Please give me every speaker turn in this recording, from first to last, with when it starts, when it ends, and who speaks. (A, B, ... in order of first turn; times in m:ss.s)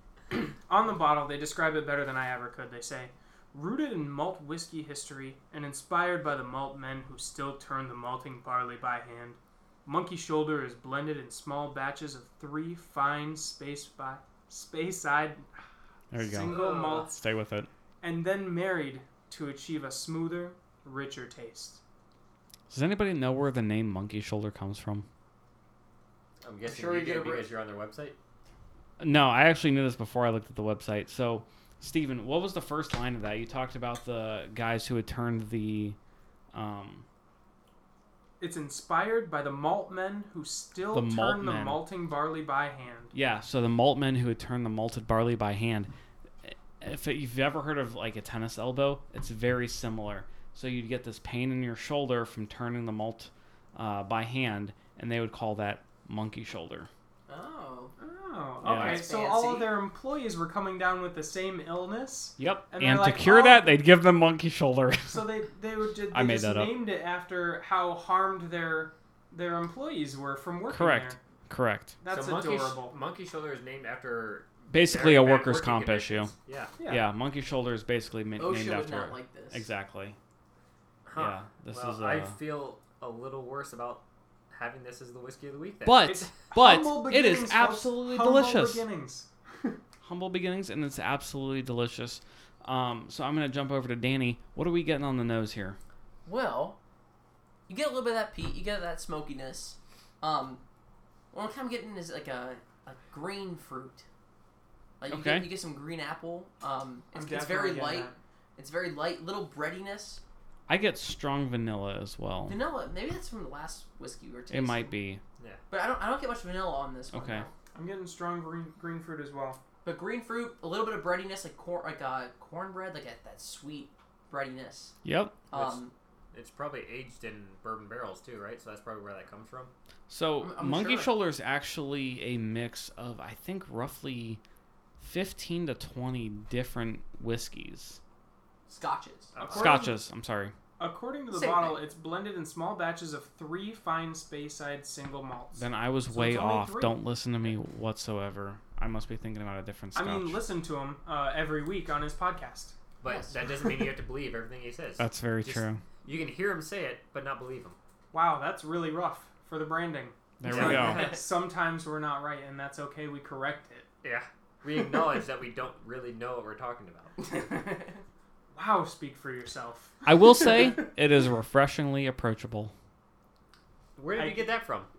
0:00.3-0:15.4 A
0:16.1-0:17.7 B
0:16.1-0:17.2 A
0:16.3-0:17.1 C
0:18.0-0:21.8 A
0:22.7-0:25.0 B
0:26.4-0:28.2 C
0:26.6-0:27.5 D
0:29.0-0:36.0 B
0:36.5-0:37.0 B
0:38.4-0:43.1 A
0:40.9-0:41.8 B
0:43.1-0:45.9 B
0:46.4-0:56.9 B
0:57.3-0:57.9 D
0:58.0-1:03.8 A
0:58.6-0:59.0 B
0:58.6-0:59.8 D
1:02.4-1:05.3 B
1:05.1-1:11.2 A
1:06.1-1:06.8 B
1:10.7-1:12.0 B
1:12.0-1:13.0 A
1:12.1-1:16.8 C
1:14.7-1:16.3 B
1:16.8-1:17.1 A
1:16.8-1:20.2 B
1:18.4-1:19.6 D
1:21.0-1:26.1 C
1:21.1-1:22.4 B
1:25.8-1:28.8 B
1:26.0-1:29.8 A
1:30.0-1:35.8 B
1:36.2-1:36.8 D
1:37.7-1:40.6 D
1:41.3-1:44.0 D
1:45.0-1:50.2 D
1:45.1-1:45.5 B
1:47.1-1:48.2 A
1:50.7-1:52.6 B
1:52.4-1:55.0 D
1:54.5-1:55.2 B
1:55.7-1:57.5 D
1:57.1-1:57.5 B
1:57.7-1:59.6 A
1:59.8-2:04.9 D
2:05.0-2:05.4 B
2:05.5-2:05.9 D
2:05.5-2:09.7 C
2:10.1-2:14.4 B
2:10.4-2:11.2 D
2:15.0-2:18.0 B
2:18.7-2:19.3 D
2:19.3-2:19.8 C
2:19.4-2:20.0 A
2:19.5-2:20.5 B
2:20.8-2:27.0 A
2:21.3-2:21.8 D
2:25.6-2:30.4 B
2:29.9-2:32.7 A
2:33.0-2:37.8 C
2:35.0-2:35.8 B
2:38.1-2:43.8 A
2:40.4-2:41.1 B
2:40.5-2:41.2 C
2:44.0-2:47.2 C
2:47.3-2:48.0 D
2:48.5-2:50.8 A
2:50.0-2:52.7 B
2:54.0-2:54.9 C
2:54.2-2:54.5 A